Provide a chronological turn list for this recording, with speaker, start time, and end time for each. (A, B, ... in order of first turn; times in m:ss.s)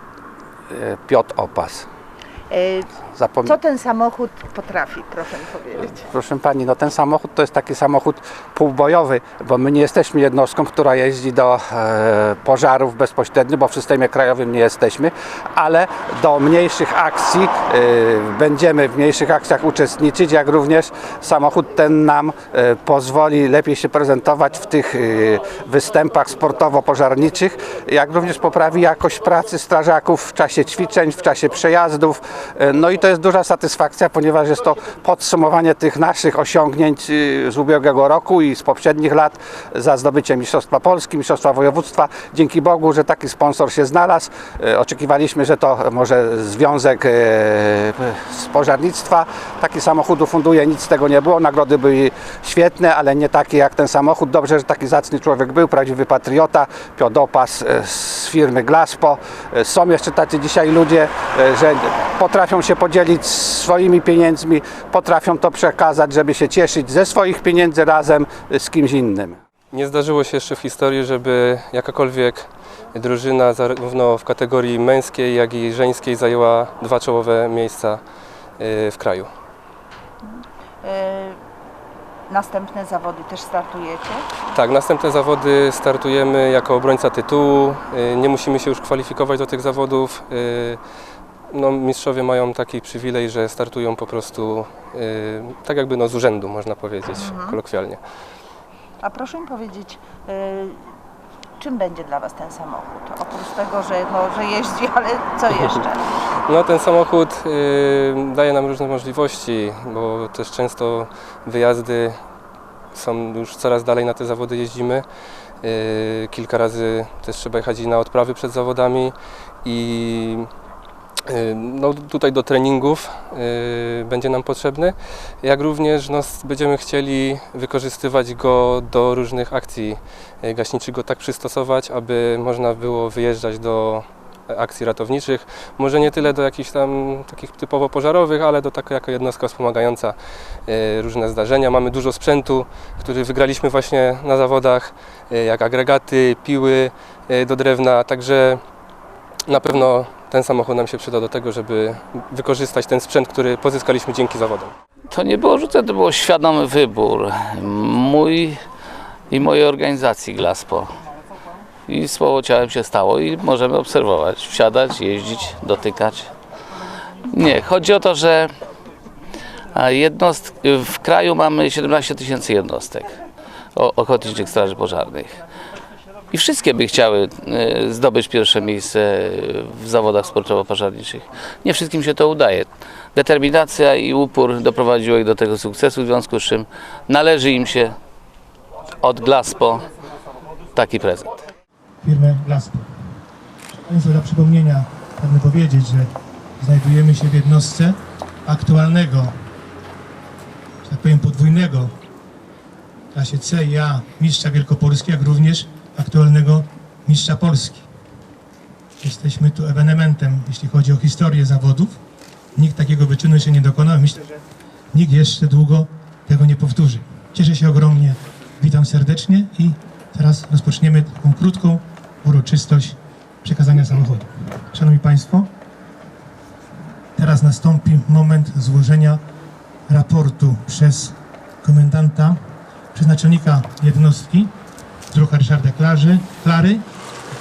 0:00.7-0:01.9 A
0:02.5-0:02.9 B
0:03.1-0:03.6 A
0:03.4-0:06.0 B
0:05.8-1:09.4 A
1:09.7-1:18.0 C
1:18.6-1:19.3 C
1:20.3-1:21.4 B
1:22.3-1:24.3 B
1:24.5-1:30.8 C
1:31.5-1:38.0 C
1:37.2-1:37.6 B
1:39.0-1:40.8 B
1:41.6-1:46.0 B
1:46.5-1:52.2 C
1:52.9-1:55.0 C
1:55.6-2:00.5 C
2:01.3-2:20.2 C
2:20.7-2:28.6 C
2:29.5-2:34.7 C
2:35.1-2:38.6 D
2:39.3-2:40.9 D
2:41.9-2:46.3 D
2:47.3-2:48.5 D
2:49.7-2:53.1 D
2:53.8-2:55.4 D
2:56.3-3:08.0 D
3:09.0-3:09.9 D
3:10.7-3:11.3 D
3:12.0-3:12.9 E
3:13.7-3:19.3 E
3:20.8-3:21.9 E
3:23.1-3:27.8 E
3:29.0-3:32.0 E
3:32.6-3:34.3 E
3:34.9-3:45.5 E
3:47.2-3:49.2 E
3:49.9-3:52.4 E
3:52.9-3:54.5 E
3:55.1-3:56.8 E